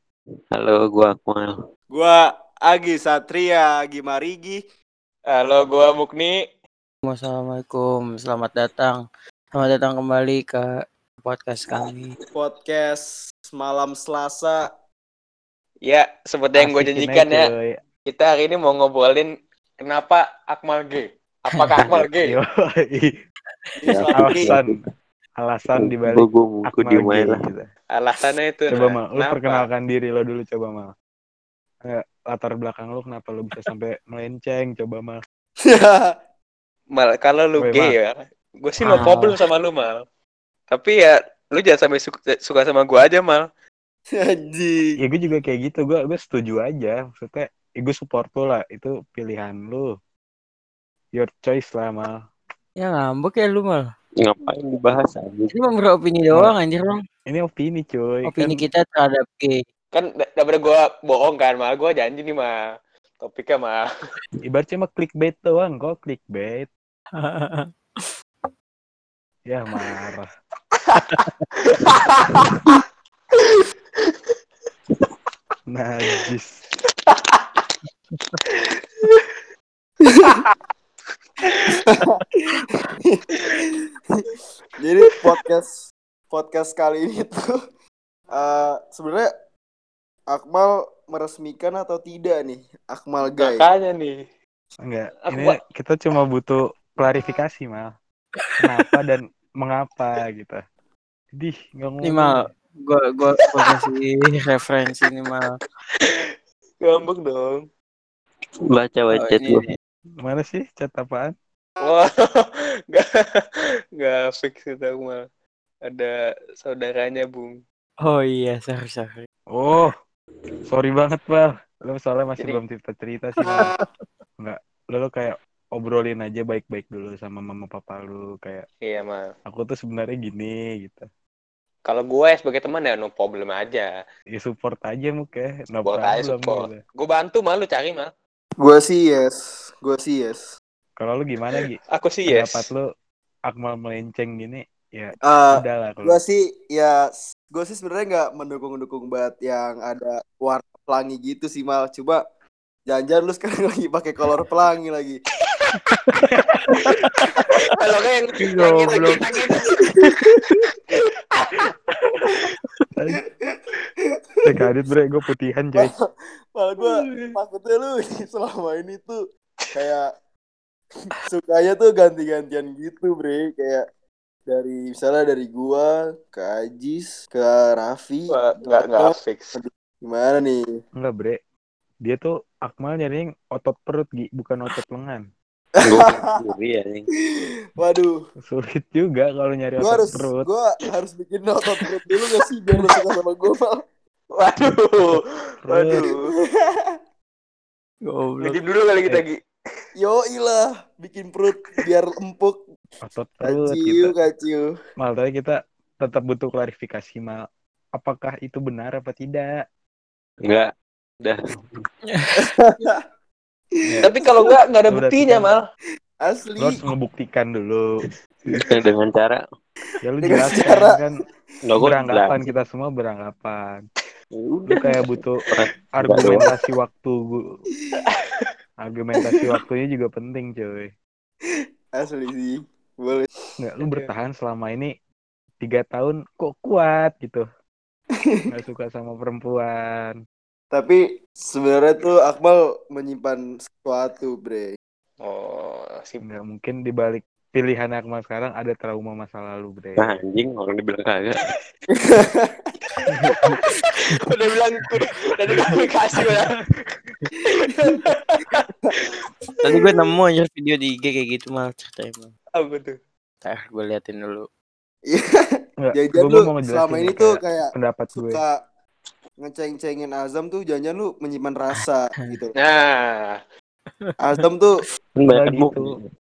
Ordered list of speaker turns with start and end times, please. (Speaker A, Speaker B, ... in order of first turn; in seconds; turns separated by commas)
Speaker A: 0.5-1.5, Speaker B: 1.9-4.6, Speaker C: 5.3-6.4, Speaker D: 7.0-12.1, Speaker B: 12.3-14.7, Speaker C: 15.8-17.5, Speaker E: 16.6-17.8, Speaker C: 18.1-19.3, Speaker C: 19.8-22.4, Speaker E: 22.2-23.1, Speaker B: 23.8-24.5, Speaker A: 23.9-24.7, Speaker C: 24.0-24.4, Speaker E: 24.1-24.7, Speaker E: 25.4-27.7, Speaker A: 25.7-27.4, Speaker C: 27.9-29.6, Speaker E: 28.7-30.9, Speaker E: 31.8-35.2, Speaker B: 35.6-36.1, Speaker C: 36.9-40.0, Speaker E: 37.6-37.9, Speaker D: 38.8-39.4, Speaker C: 40.7-43.4, Speaker B: 44.1-45.0, Speaker E: 45.0-49.9, Speaker E: 51.1-52.2, Speaker D: 52.8-53.9, Speaker A: 54.2-55.5, Speaker D: 55.5-57.0, Speaker E: 57.3-58.6, Speaker D: 58.2-59.6, Speaker C: 59.9-62.5, Speaker C: 63.2-63.8, Speaker E: 64.4-66.7, Speaker D: 67.2-68.1, Speaker E: 69.5-70.3, Speaker C: 70.8-72.8, Speaker C: 73.4-74.3, Speaker E: 75.7-76.6, Speaker C: 77.0-77.6, Speaker C: 78.5-79.4, Speaker B: 80.0-80.4, Speaker C: 80.2-80.5, Speaker C: 81.4-82.0, Speaker B: 81.7-82.1, Speaker B: 84.8-87.5, Speaker B: 88.3-89.3, Speaker B: 90.3-93.7, Speaker C: 93.4-94.2, Speaker E: 94.8-97.9, Speaker C: 95.2-95.6, Speaker E: 98.6-100.6, Speaker E: 101.3-102.3, Speaker D: 102.0-105.6, Speaker C: 106.8-107.7, Speaker A: 108.7-109.6, Speaker D: 109.1-109.7, Speaker E: 110.2-111.3, Speaker C: 111.8-113.1, Speaker C: 114.0-115.2, Speaker C: 115.9-117.6, Speaker D: 118.0-119.2, Speaker E: 119.5-119.9, Speaker E: 120.7-123.7, Speaker E: 124.4-128.7, Speaker C: 128.8-129.2, Speaker E: 129.4-131.1, Speaker C: 131.8-133.9, Speaker E: 134.3-136.8, Speaker C: 135.8-138.1, Speaker B: 138.6-140.5, Speaker E: 141.0-142.9, Speaker C: 141.9-142.7, Speaker E: 143.5-146.2, Speaker B: 145.2-152.2, Speaker B: 152.9-155.2, Speaker D: 156.7-157.3, Speaker C: 157.8-161.7, Speaker D: 158.4-159.3, Speaker E: 162.9-163.2, Speaker E: 164.4-165.9, Speaker B: 165.7-169.2, Speaker C: 166.9-167.3, Speaker B: 169.7-170.1, Speaker B: 171.3-173.8, Speaker B: 174.5-180.7, Speaker C: 178.3-179.6, Speaker E: 181.0-181.4, Speaker E: 182.0-185.2, Speaker B: 185.8-186.2, Speaker A: 185.8-187.1, Speaker B: 187.8-188.2, Speaker E: 188.4-190.4, Speaker B: 189.8-193.8, Speaker C: 194.3-196.3, Speaker E: 195.6-196.0, Speaker B: 196.0-197.0, Speaker D: 198.0-198.6, Speaker C: 198.4-199.4, Speaker B: 200.0-202.6, Speaker E: 203.0-204.1, Speaker B: 203.4-204.7, Speaker E: 205.0-207.4, Speaker E: 207.9-209.5, Speaker A: 210.4-210.7, Speaker A: 211.2-211.5, Speaker D: 212.1-212.4, Speaker B: 212.4-213.0, Speaker C: 214.0-215.6, Speaker E: 214.9-215.5, Speaker B: 216.2-216.8, Speaker E: 216.6-217.8, Speaker A: 218.5-219.4, Speaker E: 220.0-221.1, Speaker B: 220.2-221.0, Speaker A: 221.7-222.4, Speaker E: 221.8-223.8, Speaker A: 224.3-224.9, Speaker E: 224.7-227.4, Speaker A: 225.5-226.5, Speaker C: 228.1-228.5, Speaker E: 228.8-230.9, Speaker B: 231.9-233.3, Speaker E: 233.6-234.9, Speaker C: 233.8-234.1, Speaker E: 235.6-237.4, Speaker E: 238.5-240.2, Speaker B: 240.7-244.7, Speaker C: 245.2-246.2, Speaker E: 246.2-250.1, Speaker A: 250.0-251.4, Speaker B: 251.9-252.7, Speaker E: 253.1-253.3, Speaker C: 253.7-256.6, Speaker C: 257.5-259.3, Speaker D: 259.6-262.3, Speaker C: 262.6-262.9, Speaker D: 263.4-264.5, Speaker B: 265.1-268.6, Speaker E: 265.8-268.4, Speaker B: 269.4-272.5, Speaker D: 271.7-272.4, Speaker C: 272.6-273.4, Speaker D: 274.0-274.4, Speaker B: 274.2-274.8, Speaker A: 275.2-276.1, Speaker E: 275.3-275.9